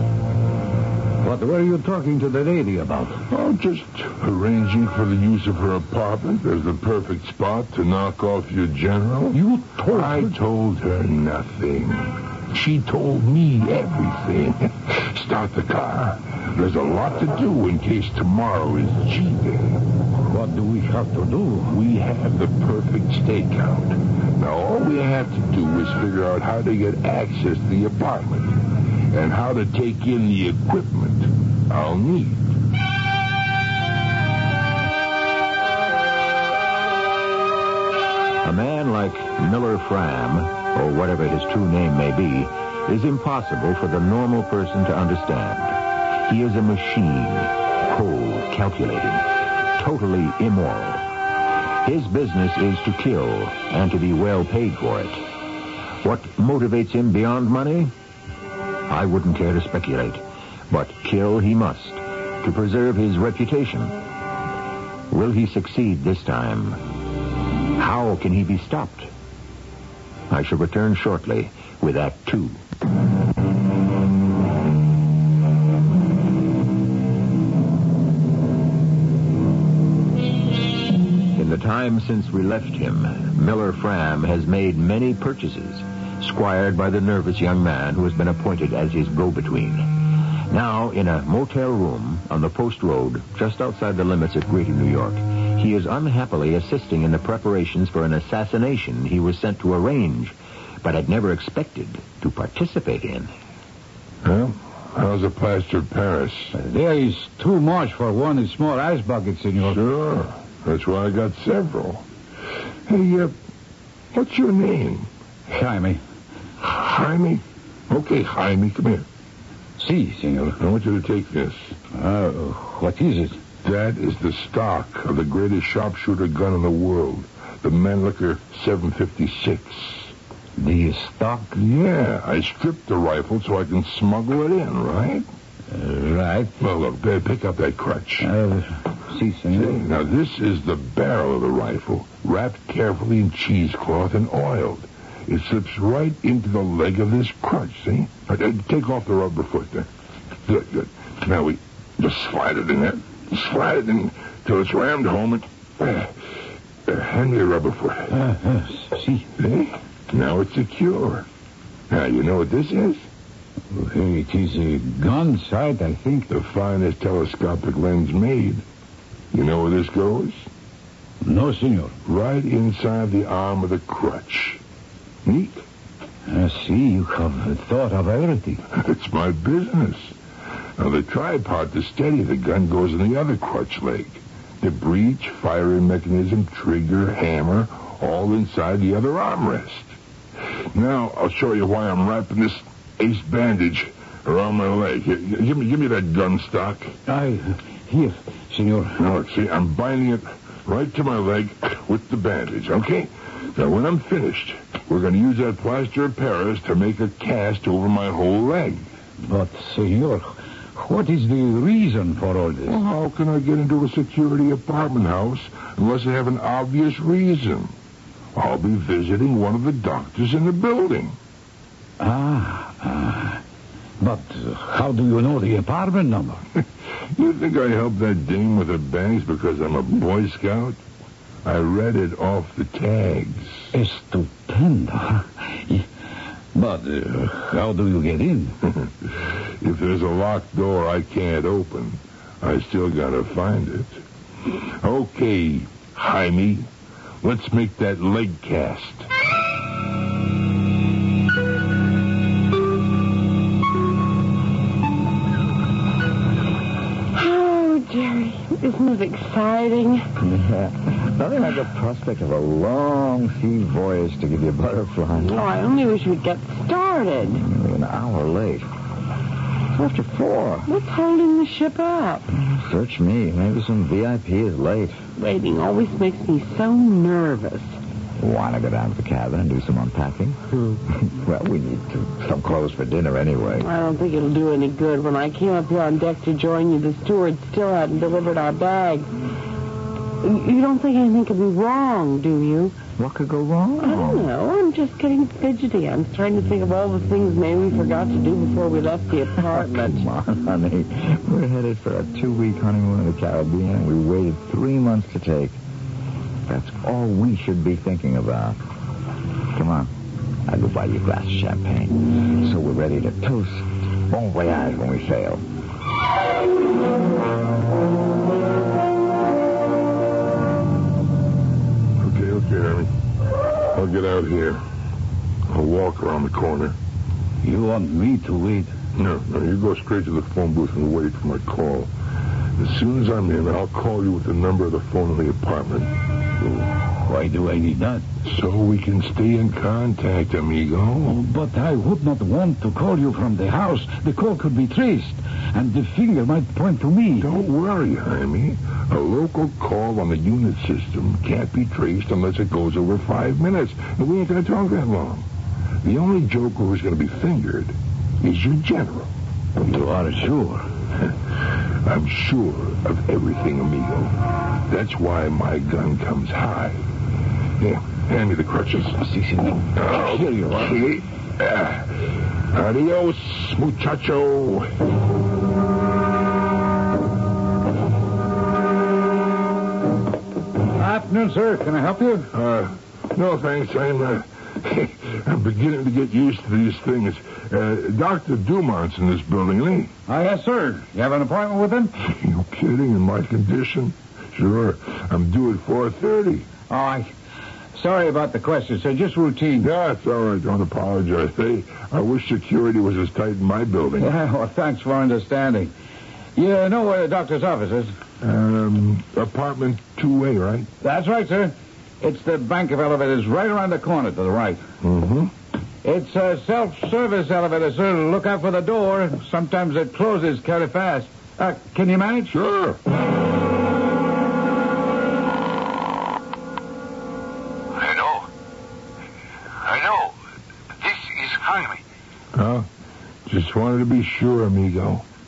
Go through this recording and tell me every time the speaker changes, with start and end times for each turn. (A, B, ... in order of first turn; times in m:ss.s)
0:01.2-0:03.2 A
0:03.3-0:19.8 B
0:09.3-0:10.3 A
0:20.3-0:21.7 A
0:21.7-0:32.5 B
0:38.4-0:51.0 C
0:51.8-0:55.2 C
0:56.0-0:57.9 C
0:58.9-1:04.0 C
1:05.1-1:06.8 C
1:07.8-1:09.1 C
1:10.3-1:12.6 C
1:21.3-1:29.9 C
1:30.5-1:43.3 C
1:44.2-1:46.5 B
1:46.5-1:49.8 A
1:49.6-1:52.0 B
1:52.9-1:53.3 B
1:54.1-1:55.1 B
1:55.5-1:56.0 A
1:56.6-1:59.0 B
1:59.8-2:00.6 A
2:00.6-2:01.7 B
2:01.9-2:03.4 A
2:03.6-2:10.1 B
2:10.6-2:11.5 A
2:11.5-2:15.2 B
2:15.7-2:16.5 A
2:16.6-2:18.3 B
2:18.2-2:19.8 A
2:19.5-2:29.9 B
2:30.5-2:36.2 B
2:36.8-2:38.1 B
2:38.1-2:39.2 A
2:39.4-2:41.2 B
2:41.9-2:43.0 B
2:43.7-2:46.3 A
2:46.3-2:48.6 B
2:49.3-2:50.4 B
2:51.2-2:51.9 A
2:52.0-2:54.6 B
2:55.2-2:55.6 B
2:56.3-2:58.6 A
2:58.7-3:00.1 B
3:00.8-3:09.9 B
3:10.7-3:16.9 B
3:17.1-3:19.0 A
3:19.0-3:28.9 B
3:29.2-3:30.2 A
3:30.8-3:32.8 A
3:32.7-3:37.7 B
3:38.3-3:41.2 B
3:42.0-3:43.4 A
3:44.0-3:46.4 A
3:47.2-3:50.8 B
3:51.4-3:53.6 B
3:53.7-3:55.8 A
3:56.5-3:58.6 A
3:59.6-4:04.0 B
4:04.5-4:06.7 B
4:07.2-4:09.1 B
4:17.1-4:20.0 D
4:20.2-4:25.4 E
4:25.2-4:27.4 D
4:27.3-4:28.7 E
4:29.7-4:30.7 E
4:30.7-4:32.3 D
4:32.3-4:35.0 E
4:35.2-4:37.8 D
4:38.2-4:40.4 E
4:40.9-4:43.7 E
4:43.6-4:49.1 D
4:50.2-4:52.7 D
4:53.0-4:54.3 E
4:53.8-5:00.0 D
4:59.4-5:05.6 E
5:06.4-5:08.6 E
5:09.5-5:09.9 E
5:10.4-5:15.4 E
5:22.0-5:22.9 B
5:23.7-5:24.6 B
5:25.5-5:26.8 B
5:27.4-5:28.7 A
5:29.0-5:31.9 B
5:32.6-5:35.9 B
5:36.4-5:38.0 A
5:38.2-5:41.2 B
5:41.0-5:47.3 A
5:47.2-5:55.3 B
5:55.8-5:59.1 B
5:59.6-6:00.7 A
6:01.8-6:04.2 B
6:04.7-6:06.8 B
6:07.6-6:09.0 B
6:09.0-6:10.8 A
6:09.7-6:14.7 B
6:20.7-6:22.3 A
6:22.3-6:29.9 B
6:30.1-6:31.9 A
6:32.0-6:36.5 B
6:36.7-6:37.1 A
6:37.7-6:39.7 A
6:39.6-6:44.1 B
6:44.0-6:45.7 A
6:46.4-6:47.9 A
6:48.2-6:50.7 B
6:50.8-6:54.6 A
6:54.8-6:55.3 B
6:55.8-7:02.4 A
7:02.3-7:02.8 B
7:07.7-7:08.3 F
7:09.6-7:10.2 F
7:10.8-7:11.8 F
7:12.3-7:12.7 B
7:13.2-7:15.0 B